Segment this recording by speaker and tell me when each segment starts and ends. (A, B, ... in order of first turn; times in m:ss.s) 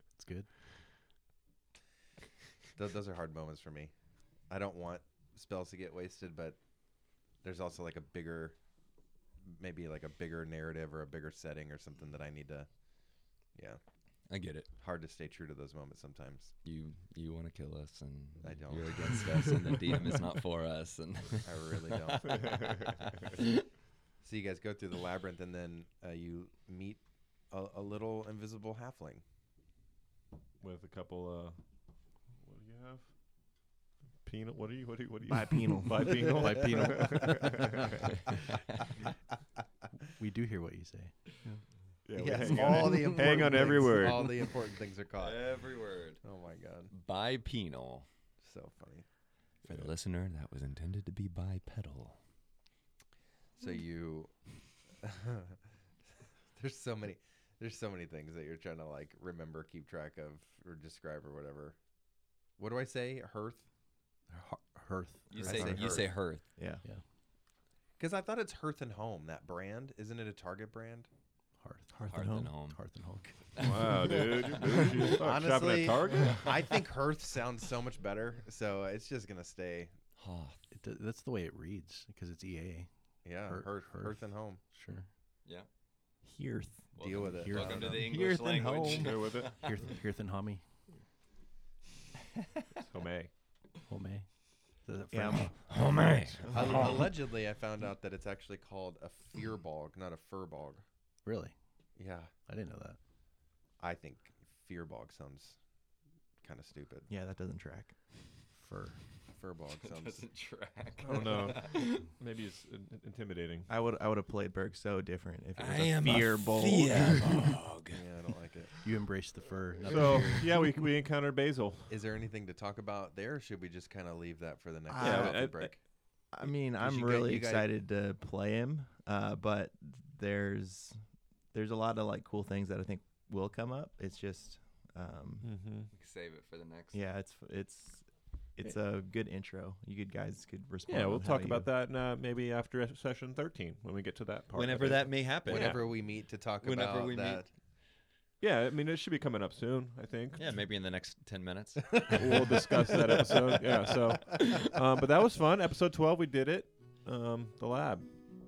0:00.2-0:00.5 A
0:02.7-0:03.9 B
0:04.5-0:06.6 B
0:07.4-0:08.6 B
0:09.4-0:12.7 B
0:13.6-0:13.8 B
0:14.3-0:14.7 C
0:14.8-0:16.6 B
0:16.6-0:23.6 C
0:18.4-0:19.7 B
0:21.4-0:22.8 B
0:22.4-0:22.7 D
0:24.2-0:29.2 B
0:30.6-0:31.6 D
0:32.3-0:33.1 D
0:34.2-0:38.1 D
0:35.3-0:36.4 E
0:36.3-0:38.0 A
0:40.0-0:41.6 A
0:42.1-0:44.4 D
0:42.2-0:45.5 B
0:42.2-0:43.8 E
0:42.5-0:42.9 A
0:45.2-0:46.2 C
0:46.2-0:46.9 B
0:46.9-0:48.1 C
0:48.4-0:49.1 B
0:49.6-0:52.2 C
0:53.6-0:54.4 B
0:54.9-0:55.6 B
0:56.2-1:01.8 B
1:02.6-1:03.7 B
1:04.3-1:05.3 A
1:05.3-1:06.4 C
1:05.3-1:06.1 B
1:05.4-1:06.8 E
1:08.0-1:11.1 B
1:11.6-1:13.6 A
1:11.9-1:12.5 E
1:12.1-1:12.8 C
1:13.6-1:14.2 C
1:13.6-1:16.6 D
1:14.1-1:15.2 E
1:15.2-1:20.0 B
1:20.2-1:20.6 C
1:20.7-1:25.1 A
1:23.2-1:24.6 B
1:26.2-1:26.9 E
1:27.0-1:29.8 C
1:27.0-1:28.1 B
1:27.4-1:30.6 A
1:28.9-1:29.6 D
1:32.8-1:33.3 D
1:33.9-1:34.3 A
1:34.8-1:35.7 A
1:35.1-1:35.6 E
1:35.7-1:37.1 C
1:36.5-1:36.8 E
1:36.5-1:40.8 B
1:41.2-1:41.6 A
1:42.0-1:42.3 B
1:42.5-1:43.0 A
1:43.8-1:45.6 B
1:46.4-1:47.1 B
1:47.1-1:48.0 E
1:48.5-1:49.0 A
1:49.3-1:50.2 B
1:49.8-1:52.1 C
1:51.0-1:53.7 D
1:53.7-1:57.6 E
1:55.6-1:58.1 C
1:57.9-1:58.7 B
1:58.8-2:00.6 A
1:59.9-2:02.0 D
2:01.9-2:05.8 B
2:04.9-2:05.5 E
2:05.0-2:05.7 D
2:06.3-2:11.0 E
2:06.4-2:07.7 B
2:11.5-2:15.5 E
2:15.4-2:15.9 D
2:15.9-2:17.0 C
2:16.9-2:21.7 E
2:20.9-2:25.8 D
2:24.5-2:25.9 C
2:25.5-2:27.5 B
2:26.6-2:27.5 C
2:28.4-2:30.6 D
2:30.4-2:32.5 C
2:32.1-2:38.1 D